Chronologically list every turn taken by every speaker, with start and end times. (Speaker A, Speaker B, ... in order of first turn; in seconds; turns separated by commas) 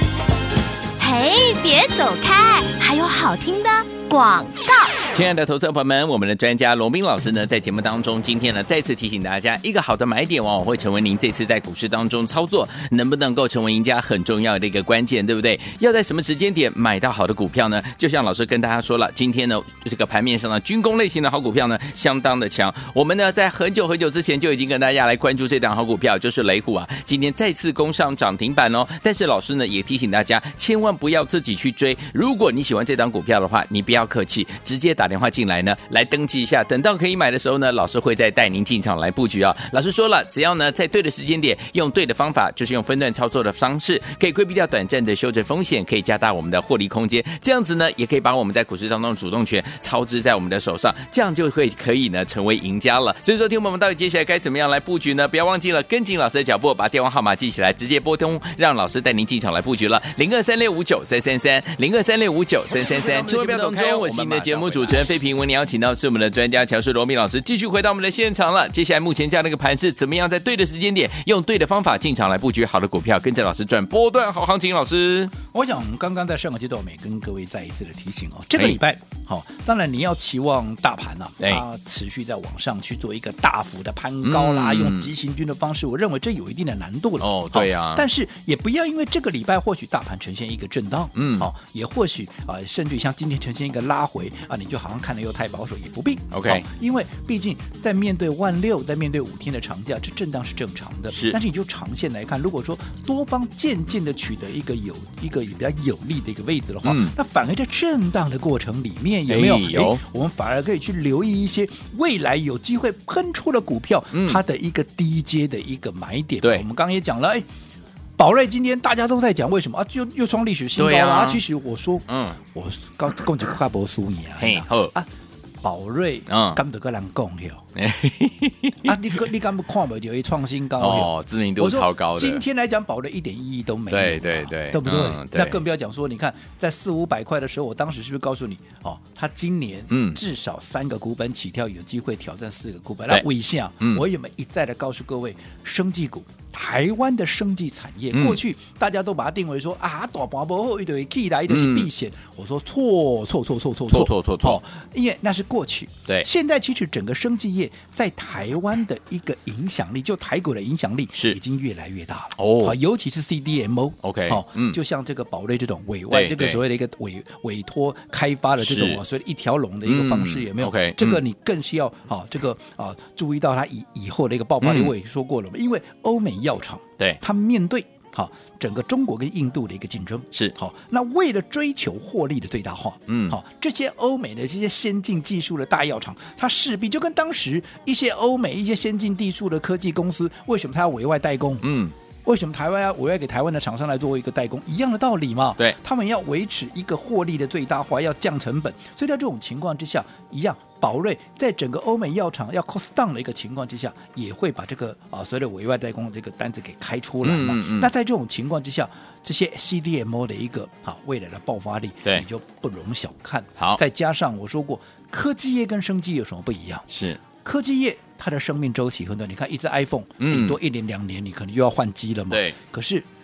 Speaker A: 1.0-4.9, Speaker B: 5.1-75.3, Speaker C: 64.4-64.7, Speaker C: 75.5-117.5, Speaker B: 81.4-81.7, Speaker B: 84.2-85.1, Speaker B: 87.2-88.0, Speaker B: 91.2-91.5, Speaker B: 96.3-96.7, Speaker B: 101.1-101.4, Speaker B: 106.8-107.2, Speaker B: 109.3-110.0, Speaker B: 114.1-114.4, Speaker C: 118.2-125.1, Speaker B: 120.8-121.4, Speaker B: 122.1-122.4, Speaker B: 124.4-124.9, Speaker C: 125.6-127.7, Speaker B: 126.3-126.6, Speaker B: 127.8-129.0, Speaker C: 128.8-191.7, Speaker B: 130.8-132.4, Speaker B: 133.9-135.6, Speaker B: 139.9-140.2, Speaker B: 148.1-148.4, Speaker B: 151.5-151.9, Speaker B: 153.9-154.6, Speaker B: 161.1-161.4, Speaker B: 162.4-162.8, Speaker B: 164.0-164.8, Speaker B: 166.1-166.6, Speaker B: 168.6-169.0, Speaker B: 169.8-171.2, Speaker B: 174.6-174.9, Speaker B: 183.1-183.4, Speaker B: 191.6-191.9, Speaker C: 192.2-223.1, Speaker B: 207.2-207.9, Speaker B: 216.9-217.2, Speaker B: 220.2-220.6, Speaker B: 222.3-222.6